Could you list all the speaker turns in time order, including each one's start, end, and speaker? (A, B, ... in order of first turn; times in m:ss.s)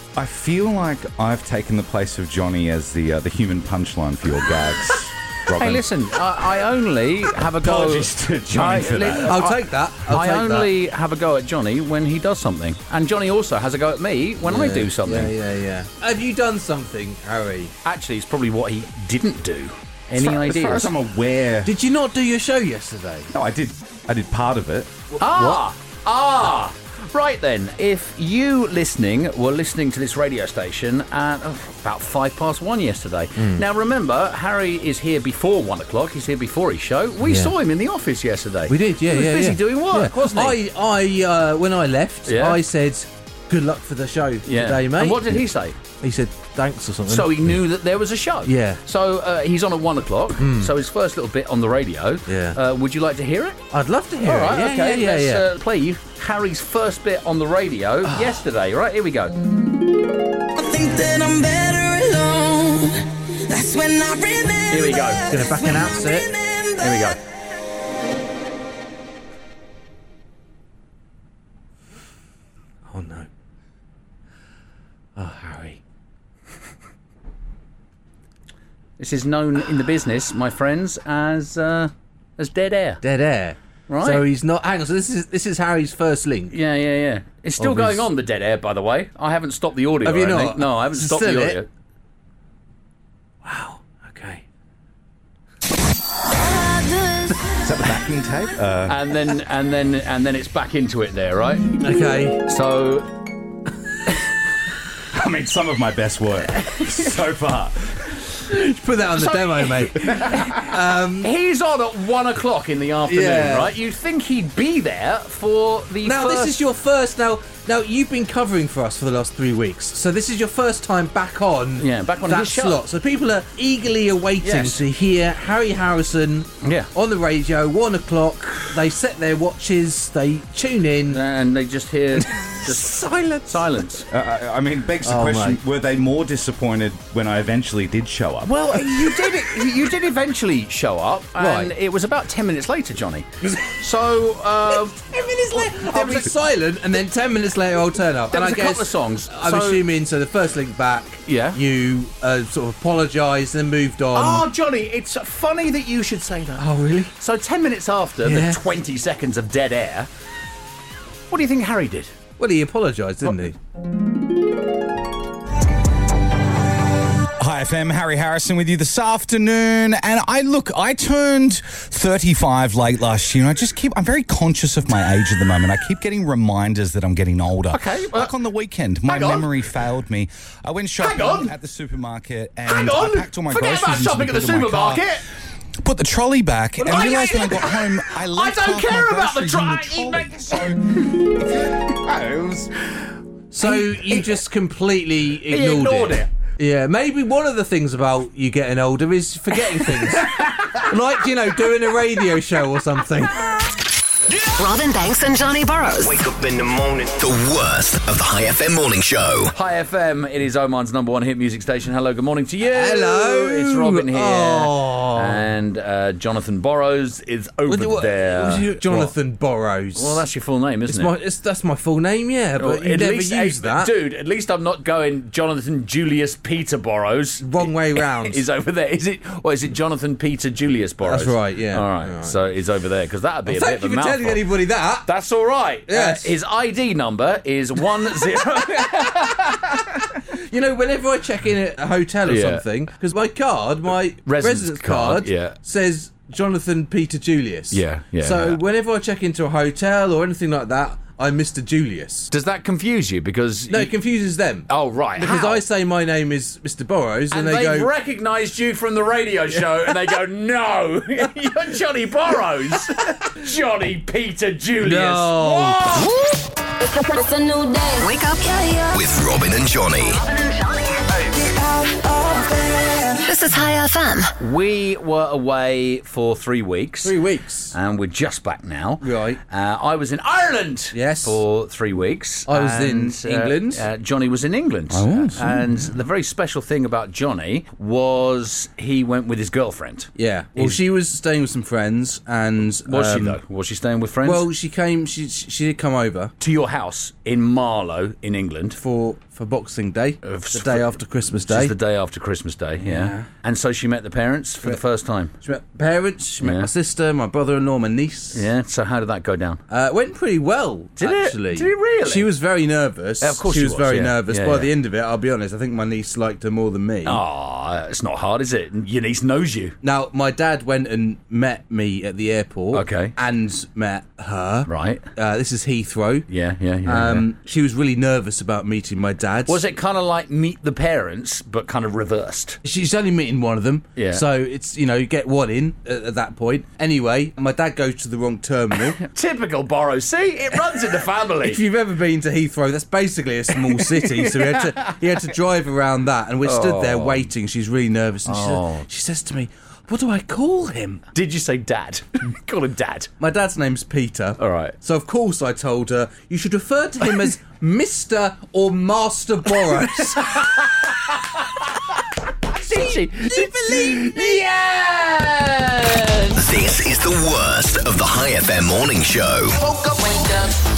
0:00.1-0:05.8 A
0:05.6-0:15.3 B
0:07.6-0:09.4 A
0:09.2-0:10.7 C
0:14.4-0:17.7 C
0:17.8-0:20.9 B
0:20.2-0:21.7 A
0:21.6-0:23.3 C
0:23.3-0:24.9 A
0:25.1-0:25.6 C
0:25.2-0:40.6 B
0:33.4-0:33.6 C
0:37.2-0:37.5 C
0:38.7-0:45.4 C
0:42.3-0:42.6 B
0:44.4-0:45.8 B
0:46.0-0:47.6 C
0:47.1-0:53.6 B
0:48.4-0:48.8 C
0:50.4-0:50.7 C
0:52.3-0:52.6 C
0:53.7-0:55.5 C
0:54.2-0:59.4 B
0:58.0-0:58.4 C
1:00.6-1:05.0 D
1:04.7-1:05.3 B
1:05.3-1:06.3 C
1:06.4-1:06.7 D
1:06.8-1:07.2 B
1:12.9-1:13.3 C
1:15.2-1:15.8 C
1:19.0-1:23.0 B
1:23.0-1:26.6 C
1:23.9-1:24.2 B
1:26.5-1:31.7 B
1:27.6-1:28.1 C
1:30.0-1:31.6 C
1:33.4-1:34.4 C
1:36.3-1:37.3 E
1:37.6-1:39.0 A
1:38.9-1:41.8 B
1:41.8-1:42.4 C
1:42.4-1:43.1 B
1:45.1-1:48.2 A
1:48.5-1:51.3 C
1:49.1-1:50.6 B
1:51.2-1:56.6 B
1:53.1-1:53.7 C
1:56.0-2:11.2 C
2:01.8-2:02.8 B
2:04.4-2:04.8 B
2:06.6-2:06.9 B
2:11.1-2:14.0 B
2:12.2-2:13.8 C
2:14.1-2:18.6 A
2:15.0-2:15.6 C
2:18.4-2:26.3 B
2:21.4-2:21.7 C
2:23.4-2:23.8 C
2:24.9-2:34.5 C
2:28.3-2:29.8 B
2:31.3-2:31.6 B
2:34.1-2:40.1 B
2:36.6-2:37.1 C
2:38.2-2:38.6 C
2:41.3-2:42.1 B
2:42.4-2:43.6 C
2:47.4-3:05.0 A
2:57.7-2:58.3 B
2:59.0-2:59.5 B
3:01.0-3:01.5 B
3:02.7-3:05.2 B
3:05.8-3:12.7 A
3:06.8-3:10.7 B
3:13.5-3:23.7 C
3:13.6-3:14.3 B
3:15.5-3:16.3 B
3:24.6-3:26.2 F
3:26.0-3:29.5 G
3:29.5-3:39.1 B
3:32.7-3:35.4 C
3:37.6-3:40.2 C
3:39.9-3:41.1 B
3:40.9-3:43.9 C
3:42.6-3:54.4 B
3:47.4-3:48.4 C
3:51.0-3:52.4 C
3:53.4-3:55.1 C
3:55.0-3:59.8 B
3:55.9-3:56.3 C
4:00.3-4:12.3 C
4:02.3-4:02.6 B
4:04.3-4:05.6 B
4:07.7-4:08.6 B
4:12.3-4:13.9 B
4:13.7-4:17.9 C
4:14.7-4:15.6 B
4:17.3-4:26.1 B
4:24.8-4:26.0 C
4:26.8-4:29.0 E
4:28.0-4:28.4 F
4:28.9-4:30.2 G
4:30.3-4:30.9 E
4:32.3-4:32.8 E
4:33.2-4:34.3 F
4:34.4-4:37.1 B
4:37.0-4:37.7 C
4:37.7-4:50.8 B
4:39.0-4:39.4 C
4:40.9-4:41.4 C
4:42.5-4:43.9 C
4:44.9-4:45.6 C
4:45.0-4:45.3 A
4:50.2-4:53.4 C
4:52.9-4:54.5 B
4:54.2-4:56.3 C
4:56.4-4:58.8 B
4:58.7-5:01.8 C
5:00.2-5:05.3 B
5:02.8-5:03.3 C
5:05.4-5:08.4 C
5:06.4-5:06.7 B
5:08.3-5:09.6 B
5:09.7-5:17.2 C
5:11.0-5:12.3 B
5:13.2-5:14.7 B
5:17.0-5:19.8 B
5:19.8-5:26.3 C
5:22.7-5:23.1 B
5:24.6-5:25.0 B
5:26.3-5:27.3 B
5:26.8-5:29.6 C
5:29.4-5:32.6 B
5:32.6-5:39.0 C
5:34.0-5:34.2 B
5:39.0-5:41.6 B
5:41.4-5:51.0 C
5:43.8-5:45.0 B
5:46.4-5:47.3 B
5:48.2-5:48.9 B
5:51.1-5:53.1 B
5:53.2-6:00.5 C
5:54.4-5:54.7 B
6:00.2-6:01.9 B
6:02.5-6:06.4 B
6:03.3-6:04.1 C
6:06.3-6:09.6 G
6:09.7-6:10.6 E